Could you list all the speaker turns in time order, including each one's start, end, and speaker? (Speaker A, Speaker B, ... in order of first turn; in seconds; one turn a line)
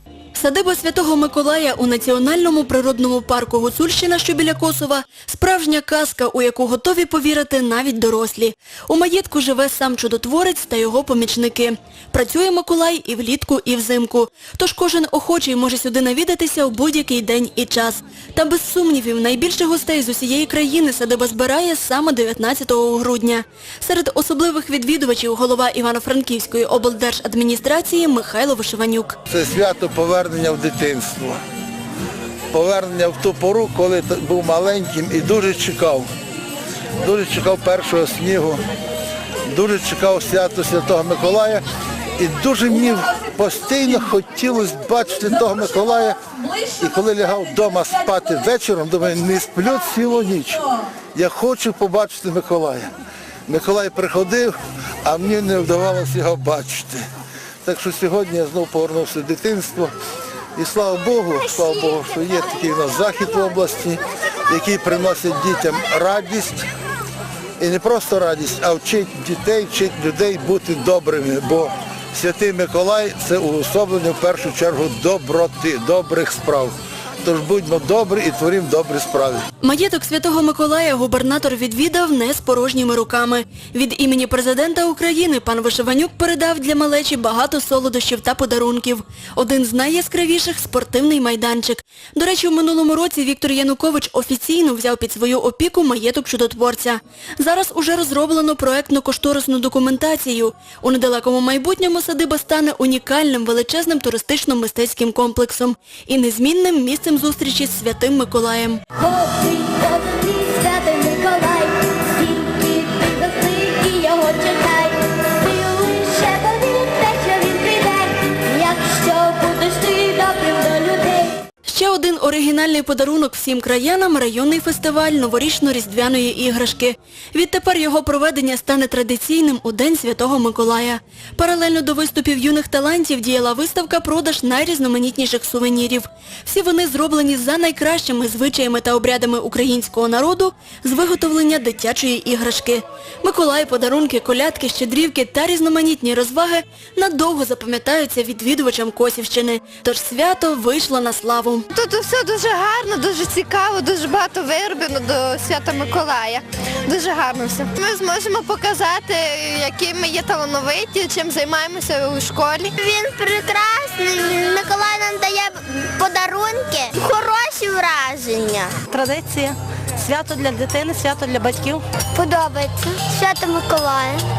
Speaker A: 0.3-29.2
Speaker B: 29.3-31.4
Speaker B: 32.5-36.1
Speaker B: 37.0-38.6
Speaker B: 39.5-41.6
Speaker B: 42.2-46.2
Speaker B: 46.7-52.9
Speaker B: 53.5-57.0
Speaker B: 57.6-59.9
Speaker B: 60.5-66.7
Speaker B: 67.6-79.5
Speaker A: 79.6-108.8
Speaker C: 108.9-121.4
Speaker A: 121.7-151.7
Speaker D: 151.7-162.7
Speaker C: 162.8-168.8
Speaker E: 168.9-171.8
Speaker C: 172.1-174.2